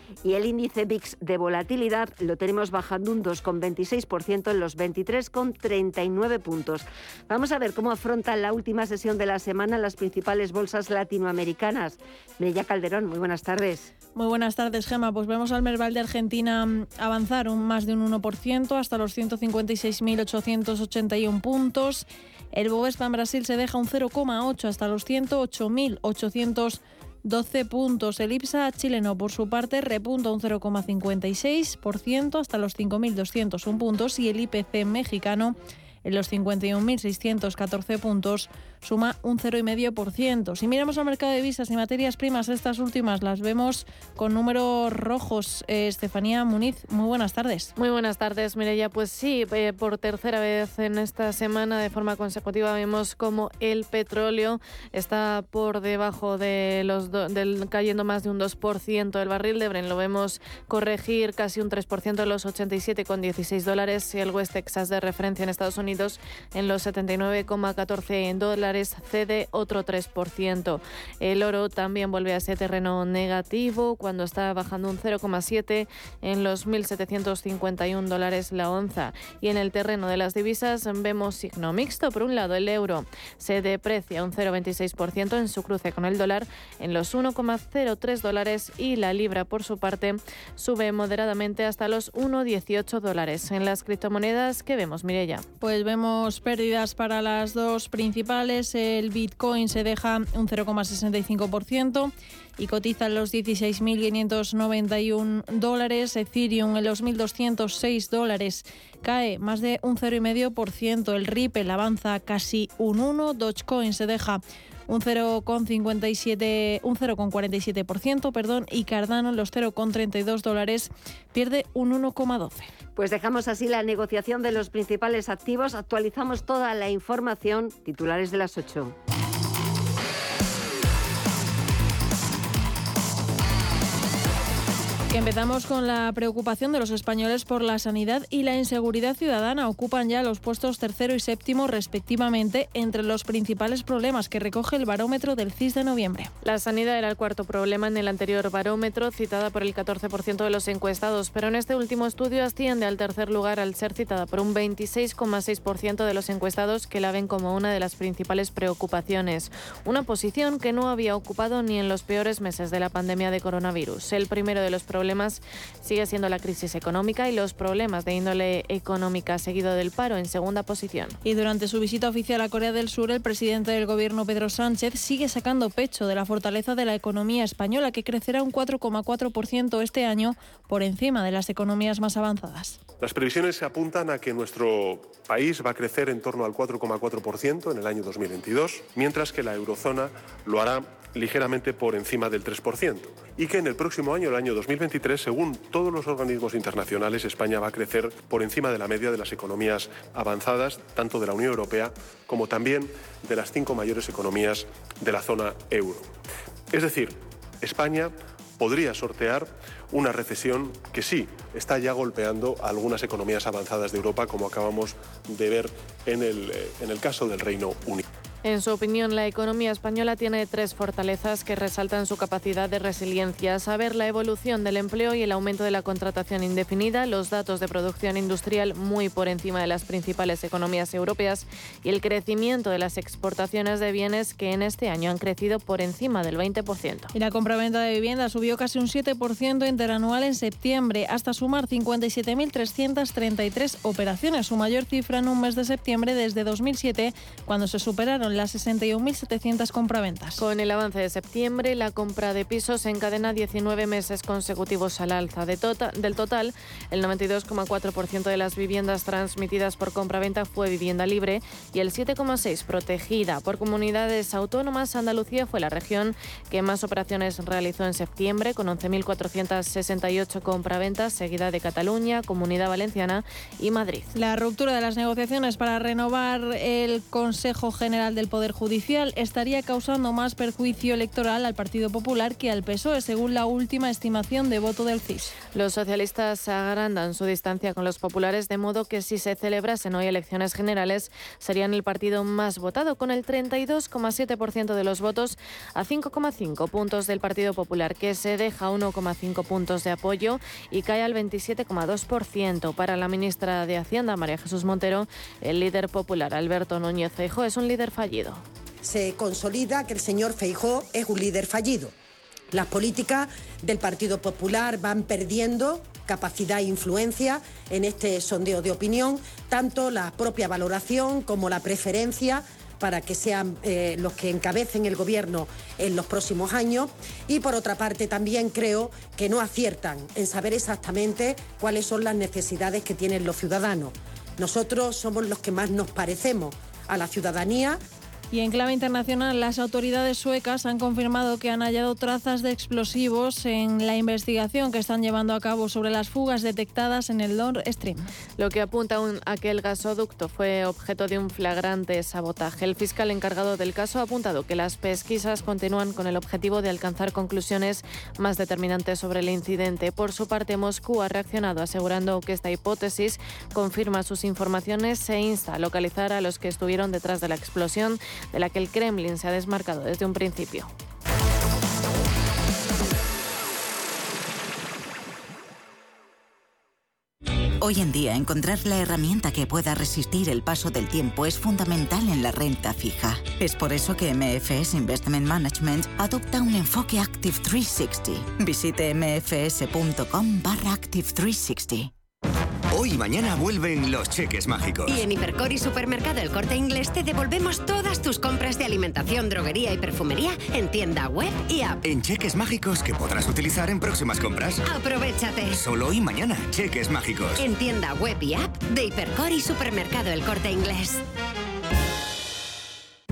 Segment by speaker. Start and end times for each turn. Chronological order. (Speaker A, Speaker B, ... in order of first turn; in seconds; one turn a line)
Speaker A: 0.2-13.9
Speaker B: 14.1-47.7
Speaker C: 47.8-95.4
Speaker B: 95.6-122.7
Speaker A: 123.0-128.9
Speaker B: 135.1-146.3
Speaker C: 146.4-171.2
Speaker B: 171.2-182.8
Speaker D: 183.0-206.1
Speaker D: 206.7-218.0
Speaker C: 218.4-237.1
Speaker B: 237.1-250.4
Speaker C: 250.4-274.1
Speaker B: 274.1-285.3
Speaker C: 285.5-308.4
Speaker E: 308.8-311.9
Speaker E: 312.5-337.8
Speaker B: 338.3-348.1
Speaker C: 348.4-370.7
Speaker F: 377.6-391.9
Speaker G: 392.7-395.0
Speaker H: 394.9-401.8
Speaker G: 401.8-404.6
Speaker H: 404.6-405.6
Speaker G: 405.6-407.5
Speaker H: 407.4-411.0